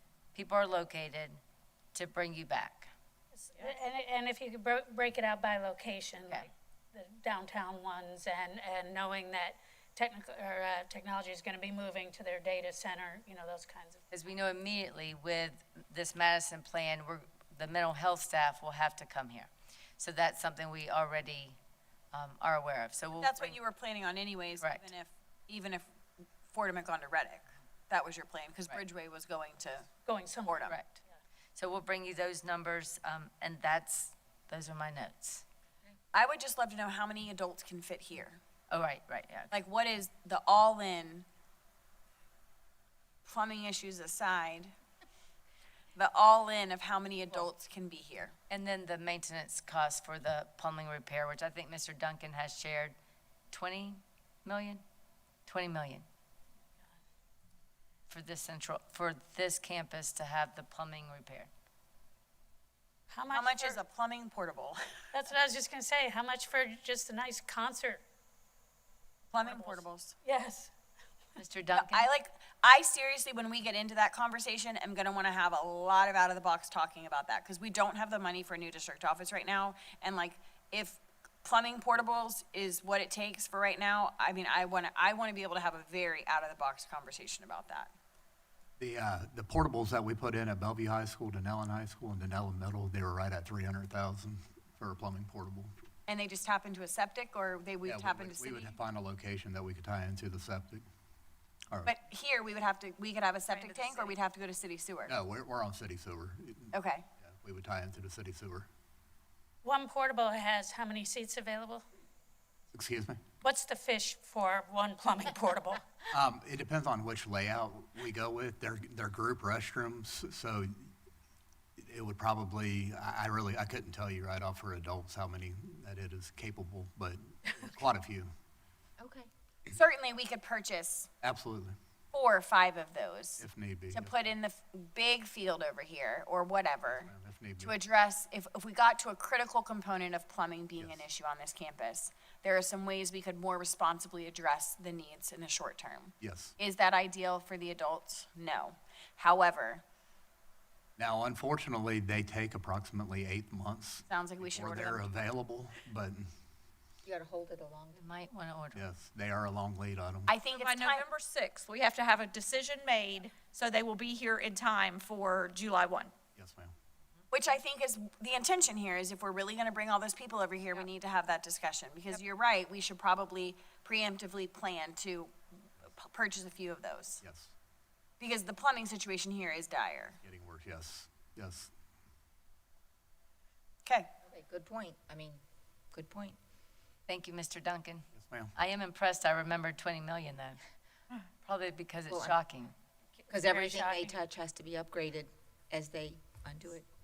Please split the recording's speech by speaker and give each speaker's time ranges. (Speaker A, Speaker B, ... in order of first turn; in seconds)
Speaker A: 0.3-1.4, 1.9-2.9, 14.1-21.6, 22.1-23.6, 30.7-31.0, 31.6-35.4, 38.7-39.5, 48.5-53.0, 53.5-54.8, 55.5-56.0, 58.1-61.5, 71.4-72.1, 157.9-158.8, 187.1-190.6, 191.4-192.7, 193.5-194.1
Speaker B: 3.4-14.0, 30.1-30.7, 63.1-63.8, 65.1-68.0, 69.4-70.7, 109.6-111.8, 113.4-116.1
Speaker C: 23.2-25.9, 26.5-29.9, 30.4-30.7, 36.1-38.4, 39.5-41.3, 43.2-44.7, 46.0-48.3, 63.3-65.0, 69.3-70.1, 71.7-87.9, 96.1-98.8, 101.8-105.2, 106.7-107.0, 129.7-131.1, 132.1-149.8, 154.1-155.2, 160.3-161.1, 167.3-177.2, 178.2-180.2
Speaker D: 88.8-95.7, 97.8-100.8, 105.1-108.7, 112.7-113.2, 116.1-120.9, 121.8-128.3, 131.2-131.8, 133.4-134.2, 136.9-137.8, 140.8-141.0, 146.2-146.5, 151.0-156.3, 158.8-160.4, 166.4-166.7, 177.2-177.5, 180.2-181.7, 188.2-188.5
Speaker E: 103.5-104.2, 160.5-166.1
Speaker F: 129.0-129.3, 157.1-158.0, 184.3-186.4, 192.1-192.4, 193.3-196.9